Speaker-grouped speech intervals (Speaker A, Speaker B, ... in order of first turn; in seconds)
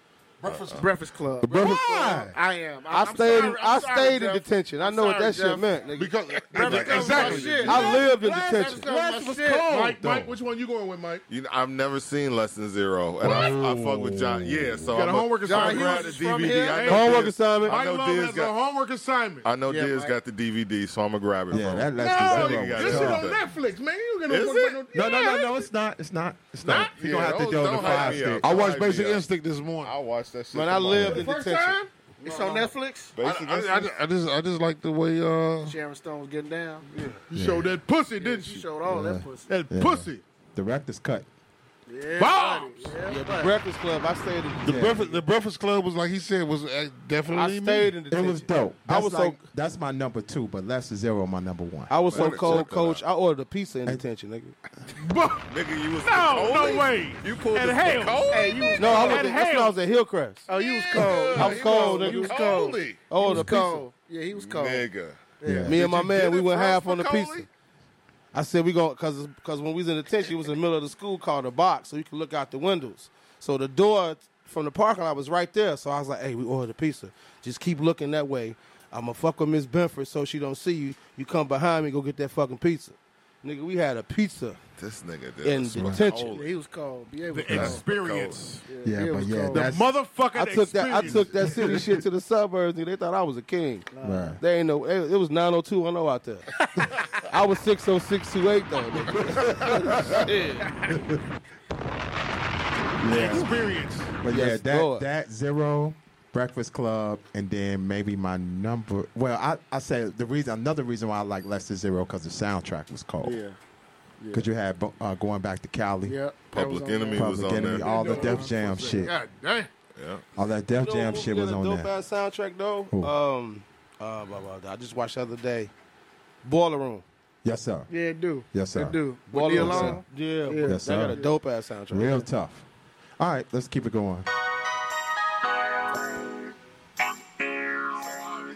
Speaker A: 0.4-0.8, 6.6-7.9, 9.7-11.2, 14.9-19.5, 22.0-25.6, 26.7-27.3, 31.0-32.6, 37.2-38.6, 39.5-40.2, 42.2-42.9, 55.0-55.4, 56.0-59.7, 87.3-88.7, 89.5-91.8, 103.0-104.2, 117.6-119.7
Speaker B: 0.4-0.8, 11.3-18.5, 19.4-23.4, 24.3-24.8, 26.6-29.2, 29.8-31.3, 33.1-33.9, 52.1-53.0, 55.5-59.2, 60.6-63.0, 64.3-65.2, 66.1-67.4, 84.8-86.5, 87.5-88.4, 116.5-117.9, 120.0-120.2
Speaker C: 0.7-5.7, 6.5-9.9, 15.4-17.0, 19.6-20.1, 32.2-33.1, 35.6-36.9, 38.2-39.5, 41.9-43.6, 58.3-59.5, 60.5-64.9, 65.4-66.0, 86.0-87.8, 88.7-89.7, 93.9-94.4, 113.2-113.6, 114.2-114.5, 116.0-119.3, 127.9-131.3
Speaker D: 1.4-2.3, 7.9-10.3, 13.2-15.0, 21.5-23.3, 24.9-28.5, 37.3-37.8, 38.9-41.3, 48.1-52.0, 65.4-65.8, 85.8-86.0, 88.8-89.9, 94.0-94.4, 103.0-103.5, 104.2-113.4, 114.3-116.2, 117.1-119.1, 120.3-121.9, 127.4-127.9, 128.5-129.0, 129.5-130.0, 130.6-131.2, 131.9-132.6, 133.2-134.3
Speaker E: 2.9-8.8, 16.9-17.8, 30.5-31.8, 43.0-45.2, 47.3-49.4, 51.9-54.5, 58.8-60.5, 61.3-62.4, 63.0-63.9, 65.7-67.5, 68.3-84.6, 85.4-86.3, 90.3-96.5, 97.3-100.7, 104.3-105.1, 120.7-125.7, 126.4-127.0, 129.3-132.2
Speaker F: 5.9-7.9, 28.4-29.9, 33.2-35.8, 44.6-47.9